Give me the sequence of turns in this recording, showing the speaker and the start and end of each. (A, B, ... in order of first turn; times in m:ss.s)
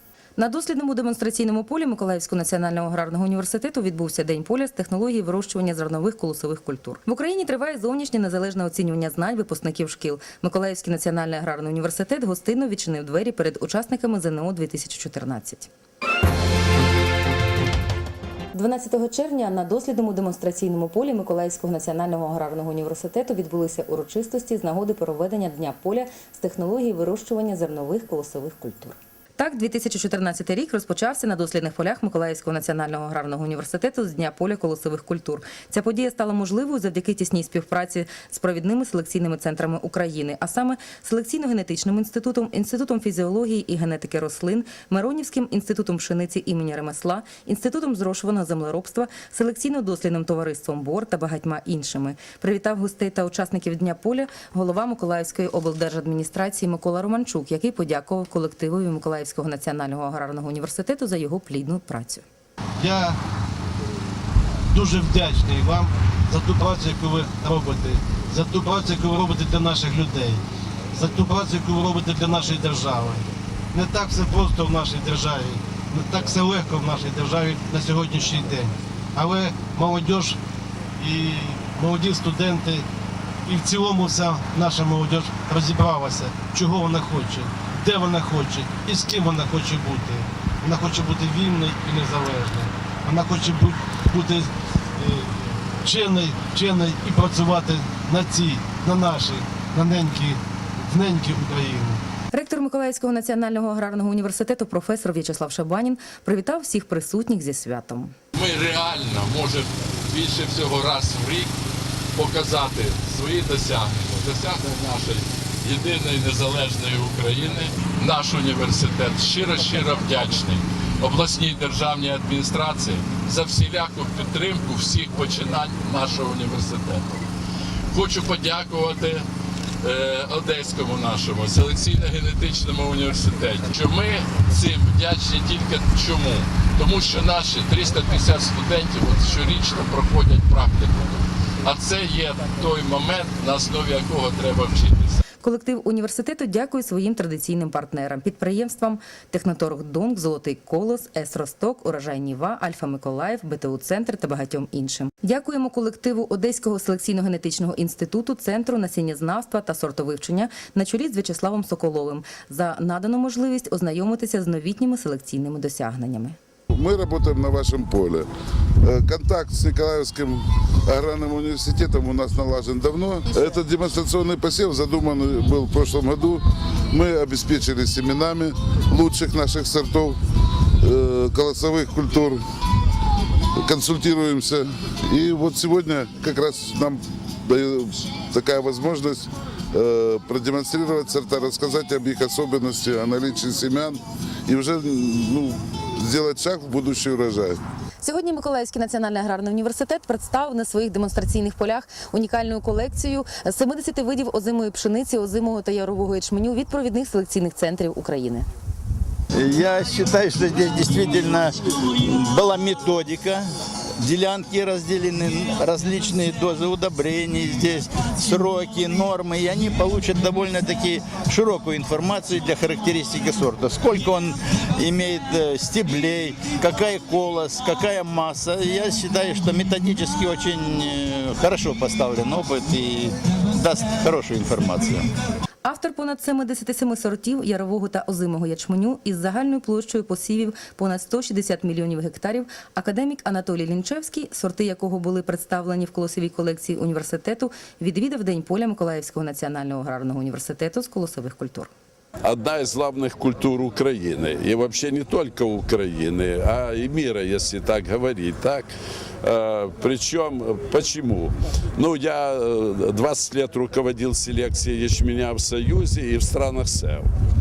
0:00.4-0:15.7 A
0:18.5-1:02.2 A
1:02.8-1:03.2 B
1:04.7-1:10.4 B
1:10.9-1:20.4 B
1:21.0-1:22.8 B
1:23.5-1:42.0 B
1:42.3-1:48.2 A
1:48.4-1:51.5 C
1:52.2-2:07.0 C
2:07.9-2:09.3 C
2:09.8-2:25.2 C
2:25.4-2:46.4 A
2:46.7-2:48.3 D
2:48.8-3:00.2 D
3:00.8-3:02.4 D
3:03.6-3:17.6 D
3:18.0-3:28.5 A
3:29.3-3:33.5 E
3:34.0-3:55.1 E
3:55.6-4:11.7 A
4:12.2-4:27.1 F